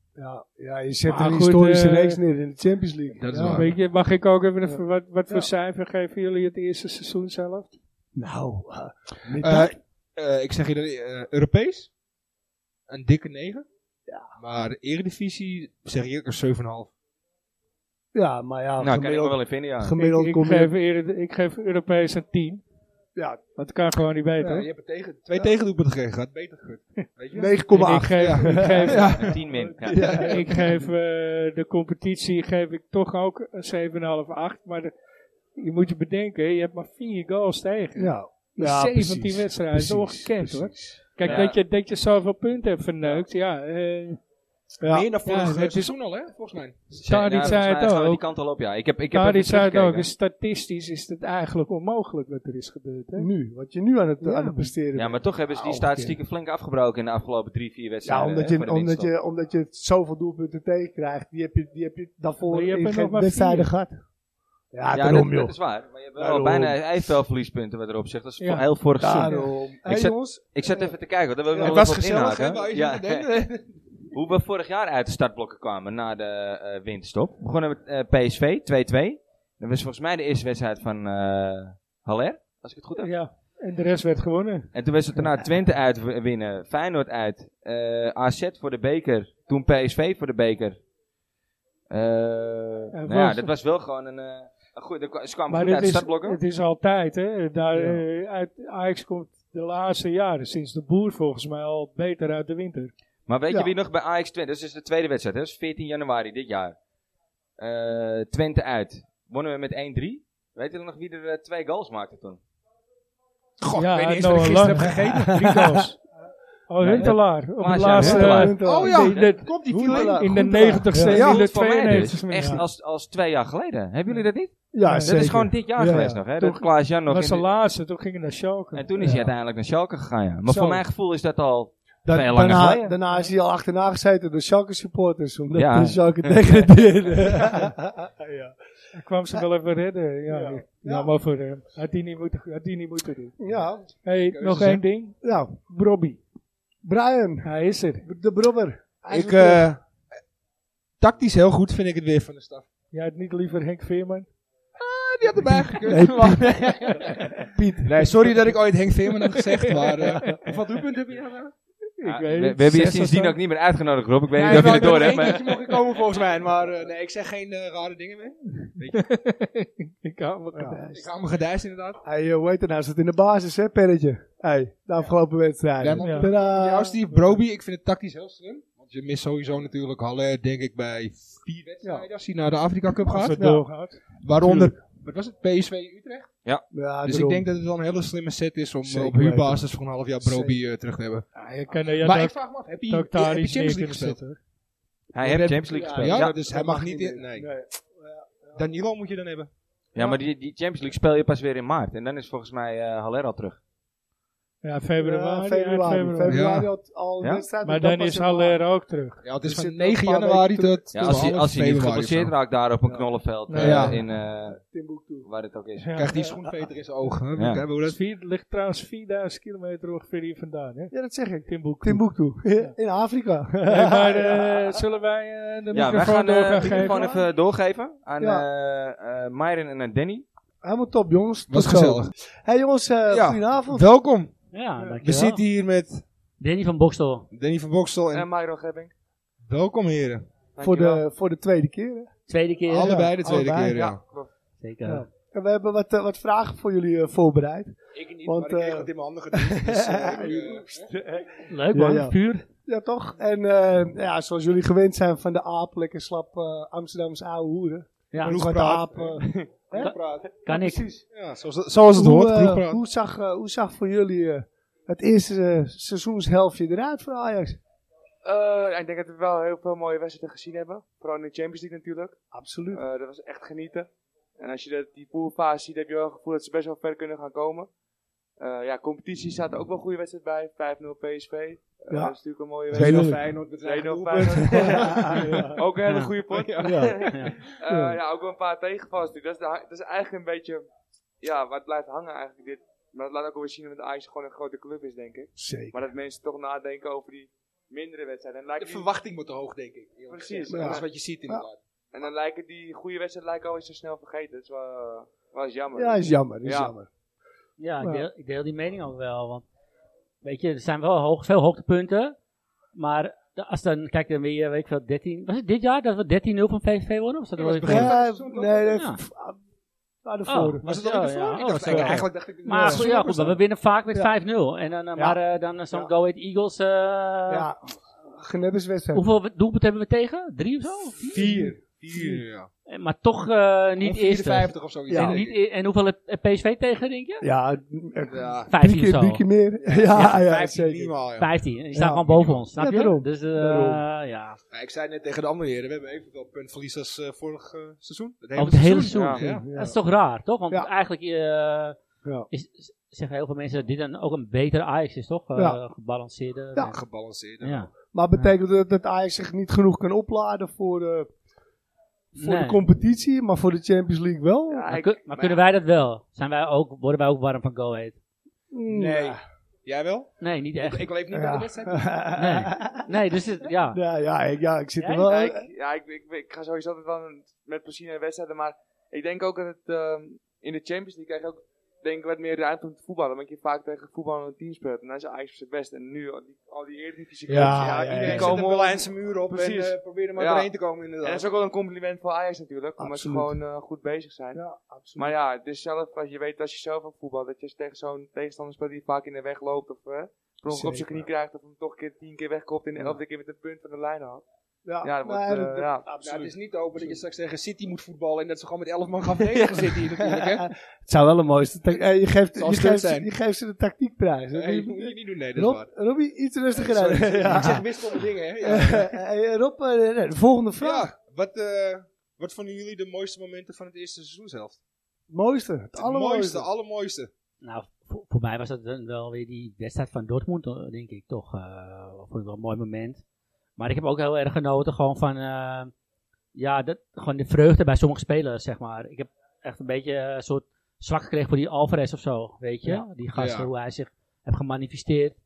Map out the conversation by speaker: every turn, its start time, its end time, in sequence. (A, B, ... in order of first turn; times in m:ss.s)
0:00.2-0:03.7 A
0:01.1-0:02.2 B
0:03.2-0:03.7 C
0:03.3-0:07.7 B
0:04.6-0:05.5 A
0:08.1-0:09.8 A
0:09.3-0:11.9 C
0:12.9-0:13.6 C
0:14.4-0:16.9 C
0:18.1-0:20.7 A
0:18.8-0:19.9 D
0:20.0-0:22.6 B
0:23.2-0:23.4 A
0:23.6-0:24.6 B
0:24.4-0:30.5 C
0:27.3-0:29.2 A
0:27.7-0:29.4 B
0:29.1-0:30.1 D
0:29.8-0:30.8 A
0:29.9-0:34.9 B
0:35.6-0:44.2 B
0:38.0-0:41.4 A
0:41.2-0:41.6 D
0:44.8-0:45.1 A
0:44.8-0:46.8 C
0:45.2-0:45.9 B
0:46.9-0:50.1 D
0:47.0-0:48.2 B
0:49.1-0:53.3 B
0:53.1-0:56.2 A
0:54.2-0:54.7 B
0:54.9-0:59.1 D
0:58.0-1:04.0 A
1:02.5-1:03.7 B
1:04.7-1:05.6 A
1:04.9-1:13.2 D
1:06.1-1:06.9 A
1:08.4-1:08.7 B
1:09.0-1:11.0 A
1:11.5-1:11.8 A
1:11.5-1:13.7 C
1:14.1-1:23.1 D
1:23.0-1:25.2 B
1:24.7-1:30.8 D
1:31.9-1:36.4 D
1:32.9-1:33.5 B
1:35.5-1:42.9 B
1:37.7-1:38.0 A
1:43.3-1:46.8 D
1:47.6-1:52.4 D
1:53.6-1:55.5 C
1:53.7-1:56.0 B
1:55.4-1:55.7 A
1:56.7-2:02.6 B
1:56.8-1:58.5 D
1:57.9-2:01.2 A
1:58.6-2:01.4 C
2:01.0-2:07.5 D
2:02.4-2:02.6 A
2:04.7-2:06.2 A
2:04.8-2:05.4 B
2:06.4-2:09.2 B
2:08.7-2:12.8 D
2:09.0-2:09.3 A
2:10.5-2:10.8 A
2:12.0-2:18.6 A
2:15.5-2:17.2 D
2:18.9-2:23.4 B
2:20.3-2:21.1 A
2:23.4-2:23.9 A
2:24.0-2:26.2 B
2:24.3-2:24.8 C
2:25.2-2:25.6 A
2:26.8-2:29.7 A
2:27.4-2:28.1 B
2:29.1-2:29.8 C
2:31.0-2:32.7 C
2:32.9-2:34.3 B
2:34.8-2:41.5 C
2:35.8-2:38.3 A
2:39.5-2:40.3 B
2:42.0-2:43.4 B
2:42.0-2:45.5 D
2:44.3-2:49.0 C
2:44.4-2:44.9 B
2:48.9-2:50.8 B
2:50.5-2:51.1 A
2:50.9-2:52.0 C
2:52.0-2:57.0 A
2:55.8-3:03.4 C
2:56.0-2:56.3 B
3:03.0-3:04.0 B
3:03.4-3:03.7 A
3:04.2-3:06.3 C
3:04.4-3:04.7 A
3:06.7-3:07.5 A
3:07.0-3:11.2 C
3:08.8-3:10.6 A
3:11.3-3:14.4 B
3:12.0-3:14.2 C
3:15.1-3:16.3 D
3:15.2-3:17.5 C
3:15.7-3:18.6 A
3:18.5-3:19.5 C
3:19.9-3:23.6 D
3:24.6-3:26.4 B
3:25.0-3:28.6 A
3:26.3-3:26.7 C
3:27.2-3:27.4 D
3:27.6-3:29.2 B
3:29.2-3:32.3 C
3:29.4-3:31.3 A
3:30.9-3:34.6 D
3:33.5-3:34.0 B
3:33.6-3:34.0 C
3:34.1-3:35.3 A
3:35.2-3:35.9 D
3:35.8-3:36.4 B
3:35.9-3:38.0 C
3:37.3-3:37.6 D
3:37.8-3:42.7 B
3:40.9-3:44.8 A
3:43.6-3:47.1 B
3:45.7-3:50.2 D
3:46.6-3:47.2 A
3:48.2-3:48.4 A
3:50.6-3:53.9 A
3:51.5-3:52.1 C
3:53.1-3:54.3 C
3:54.5-3:55.4 E
3:55.0-3:56.0 C
3:56.4-3:57.3 E
3:57.3-3:58.3 C
3:58.1-3:58.9 F
3:59.4-4:00.3 C
4:00.6-4:01.0 F
4:00.6-4:02.1 A
4:02.3-4:03.1 E
4:02.7-4:04.0 C
4:02.8-4:03.8 A
4:03.3-4:04.3 F
4:04.6-4:05.1 E
4:04.8-4:21.0 A
4:07.9-4:10.9 C
4:11.5-4:12.5 E
4:18.1-4:18.4 E
4:18.2-4:20.3 C
4:19.2-4:19.7 F
4:20.4-4:21.0 E
4:21.0-4:22.8 C
4:21.9-4:27.6 A
4:28.2-4:32.2 F
4:32.3-4:32.8 A
4:32.7-4:37.7 F
4:38.4-4:50.6 F
4:41.9-4:42.2 A
4:42.7-4:43.2 A
4:42.7-4:45.5 C
4:44.4-4:45.6 A
4:45.9-4:46.2 E
4:46.6-4:47.1 A
4:47.0-4:47.3 E
4:47.6-4:48.0 A
4:51.2-4:58.9 F
4:55.4-4:55.8 A
4:58.6-5:01.6 C
5:00.1-5:00.9 F
5:00.5-5:01.4 A
5:01.9-5:06.7 F
5:05.7-5:06.9 A
5:07.6-5:09.4 E
5:07.8-5:08.0 A
5:10.2-5:12.1 E
5:12.7-5:18.0 E
5:17.4-5:18.8 C
5:17.6-5:19.4 A
5:18.7-5:19.0 E
5:20.0-5:20.6 A
5:20.3-5:27.5 E
5:20.6-5:23.4 C
5:21.7-5:22.8 A
5:27.3-5:29.0 A
5:28.9-5:31.4 E
5:31.1-5:32.5 C
5:31.1-5:32.2 A
5:32.7-5:37.2 E
5:33.8-5:35.4 C
5:34.9-5:35.2 A
5:37.2-5:41.0 A
5:38.1-5:38.5 C
5:38.5-5:39.2 E
5:39.6-5:41.4 C
5:41.2-5:44.4 E
5:41.7-5:43.8 A
5:42.1-5:42.4 C
5:44.5-5:49.5 C
5:48.4-5:51.8 E
5:49.2-5:49.8 A
5:52.3-5:56.7 E
5:55.3-5:55.6 A
5:56.7-5:57.6 C
5:57.4-5:58.3 E
5:57.9-6:01.1 A
6:02.1-6:04.7 A
6:02.2-6:02.6 E
6:04.5-6:05.0 F
6:04.7-6:08.0 E
6:08.5-6:09.2 A
6:08.7-6:12.0 C
6:10.2-6:10.9 E
6:11.1-6:12.9 A
6:12.1-6:13.8 E
6:13.7-6:15.4 A
6:14.8-6:15.1 E
6:15.1-6:34.4 F
6:27.3-6:28.4 A
6:27.4-6:31.3 C
6:32.8-6:33.3 A
6:34.3-6:35.1 A
6:35.0-6:44.2 F
6:40.5-6:41.1 A
6:44.6-6:47.0 A
6:44.8-6:45.9 F
6:46.0-6:50.5 C
6:49.3-7:00.9 A
6:52.3-6:53.1 C
6:54.3-6:55.7 C
6:56.5-6:59.0 C
7:00.6-7:04.6 C
7:05.1-7:06.5 A
7:05.8-7:07.1 C
7:07.4-7:13.0 E
7:13.6-7:15.7 E
7:16.3-7:25.2 E
7:23.1-7:23.5 C